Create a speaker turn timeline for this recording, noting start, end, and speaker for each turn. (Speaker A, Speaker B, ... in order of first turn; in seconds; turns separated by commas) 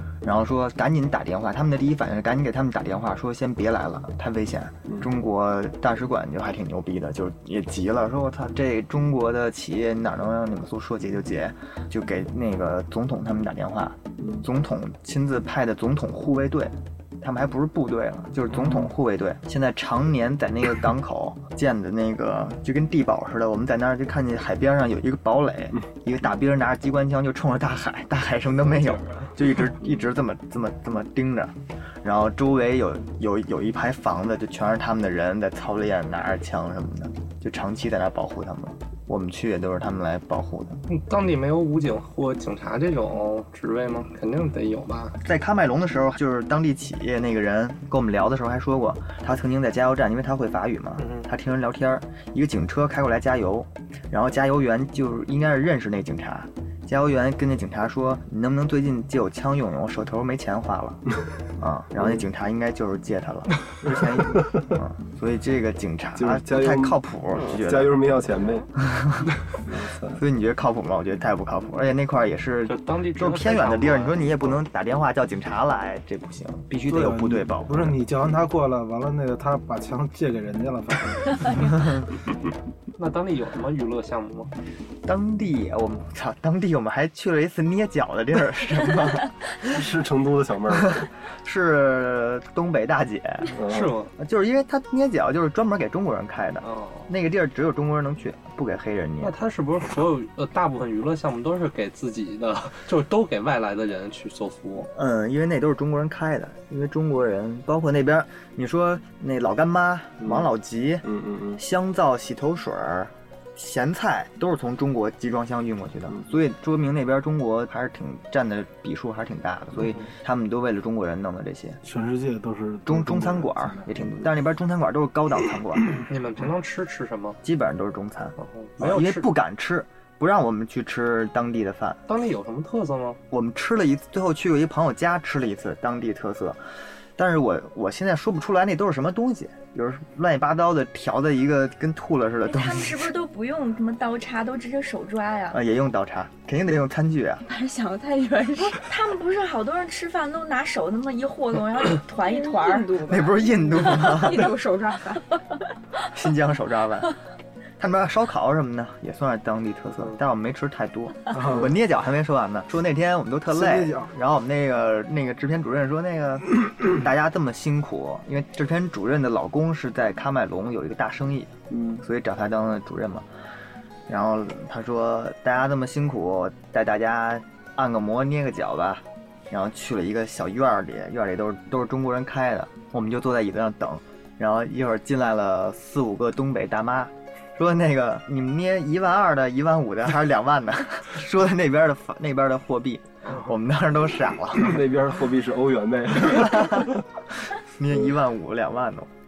Speaker A: 0.2-40.8, Speaker B: 14.2-14.4, Speaker B: 18.5-18.9, Speaker C: 28.6-29.3, Speaker C: 40.9-45.2, Speaker A: 45.2-61.0, Speaker C: 51.0-51.3, Speaker A: 61.6-68.0, Speaker B: 64.2-64.7, Speaker B: 66.2-68.7, Speaker A: 68.8-69.3, Speaker B: 69.6-70.2, Speaker A: 70.2-78.0, Speaker C: 72.7-74.5, Speaker D: 76.9-81.6, Speaker A: 81.8-82.0, Speaker C: 83.0-84.5, Speaker A: 85.0-89.8, Speaker B: 89.6-91.0, Speaker A: 90.7-93.6, Speaker B: 93.5-94.0, Speaker C: 93.7-94.1, Speaker A: 94.2-99.4, Speaker C: 96.6-97.1, Speaker C: 99.2-104.9, Speaker A: 104.9-111.0, Speaker B: 110.2-110.5, Speaker B: 111.0-111.6, Speaker A: 111.6-121.8, Speaker D: 121.8-123.9, Speaker A: 122.9-126.0, Speaker C: 126.1-127.4, Speaker A: 127.4-132.0, Speaker C: 128.4-129.3, Speaker C: 132.1-133.2, Speaker A: 133.3-136.6, Speaker A: 137.2-143.1, Speaker E: 142.4-145.6, Speaker A: 145.5-147.4, Speaker F: 147.4-148.9, Speaker E: 148.8-153.3, Speaker F: 152.2-155.2, Speaker A: 153.1-154.5, Speaker A: 156.1-157.2, Speaker A: 157.8-173.3, Speaker D: 161.3-161.7, Speaker D: 163.5-164.1, Speaker B: 171.7-172.0, Speaker A: 174.1-194.8, Speaker B: 194.6-197.0, Speaker A: 196.3-196.8, Speaker A: 197.8-199.1